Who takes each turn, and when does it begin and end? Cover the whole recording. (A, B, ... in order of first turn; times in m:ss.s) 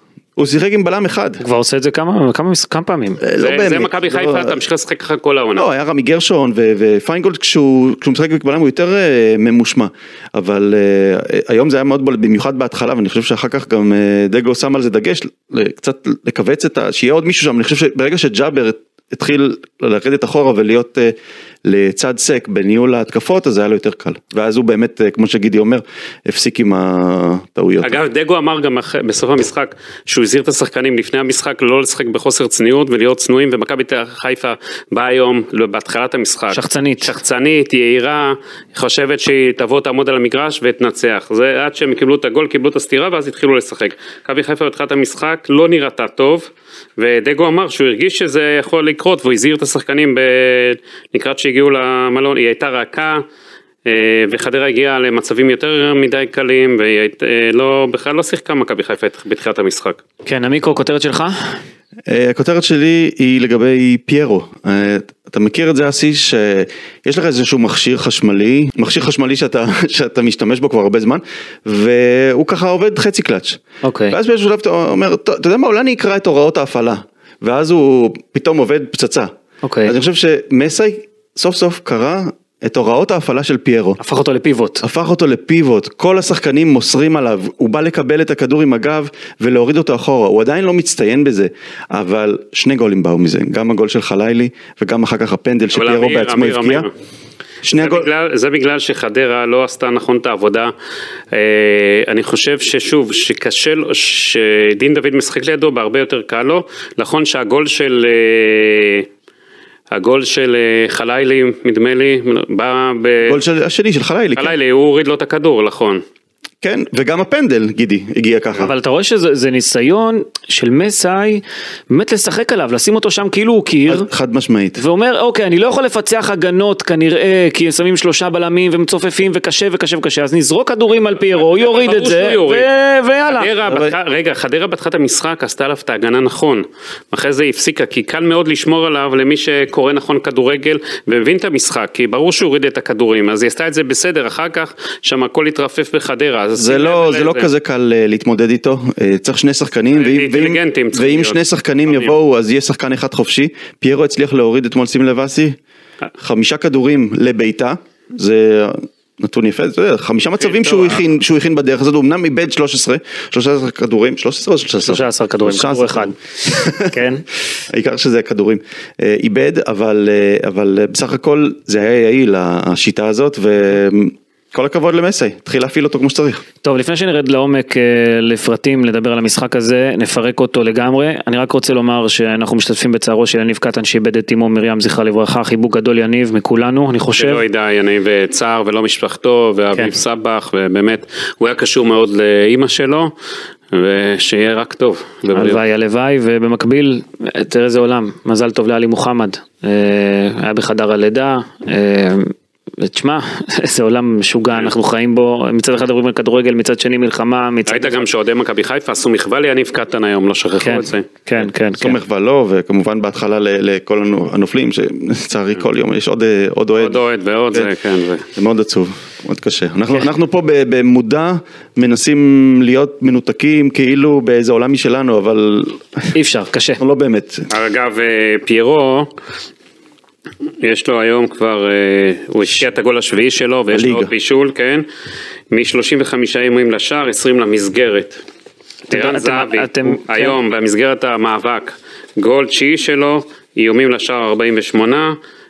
0:00.4-0:01.4 A
0:01.4-0:03.2 B
0:03.2-0:04.6 A
0:03.4-0:05.7 C
0:05.6-0:28.0 A
0:27.8-0:53.2 C
0:36.5-0:37.1 B
0:53.8-1:00.0 C
1:00.2-1:01.5 B
1:02.1-1:19.3 A
1:13.8-1:14.2 B
1:19.6-1:19.9 B
1:19.8-1:24.0 A
1:24.0-1:24.8 B
1:24.8-1:36.9 A
1:35.7-1:36.9 C
1:37.6-1:38.1 A
1:37.7-1:40.7 C
1:41.3-1:49.1 C
1:49.9-1:53.4 C
1:53.2-1:54.5 A
1:54.4-1:56.0 C
1:56.6-1:58.7 A
1:58.6-2:04.1 B
2:03.9-2:04.8 A
2:04.8-2:13.5 B
2:11.5-2:12.7 C
2:13.3-2:27.5 C
2:13.6-2:13.9 A
2:26.6-2:35.6 A
2:29.9-2:32.1 C
2:36.2-2:47.0 A
2:40.5-2:41.0 C
2:44.8-2:47.2 B
2:47.7-2:56.4 A
2:56.6-3:07.4 B
3:07.2-3:13.1 C
3:13.7-3:15.6 C
3:15.3-3:28.0 B
3:27.7-3:31.1 C
3:30.6-3:32.0 B
3:31.8-3:37.0 A
3:36.8-3:38.2 C
3:38.3-3:46.1 A
3:46.1-3:46.8 B
3:46.8-3:47.5 A
3:47.5-3:49.1 C
3:50.6-3:54.8 C
3:53.7-3:54.1 A
3:55.5-3:58.2 C
3:58.9-4:00.4 B
3:58.9-4:05.2 C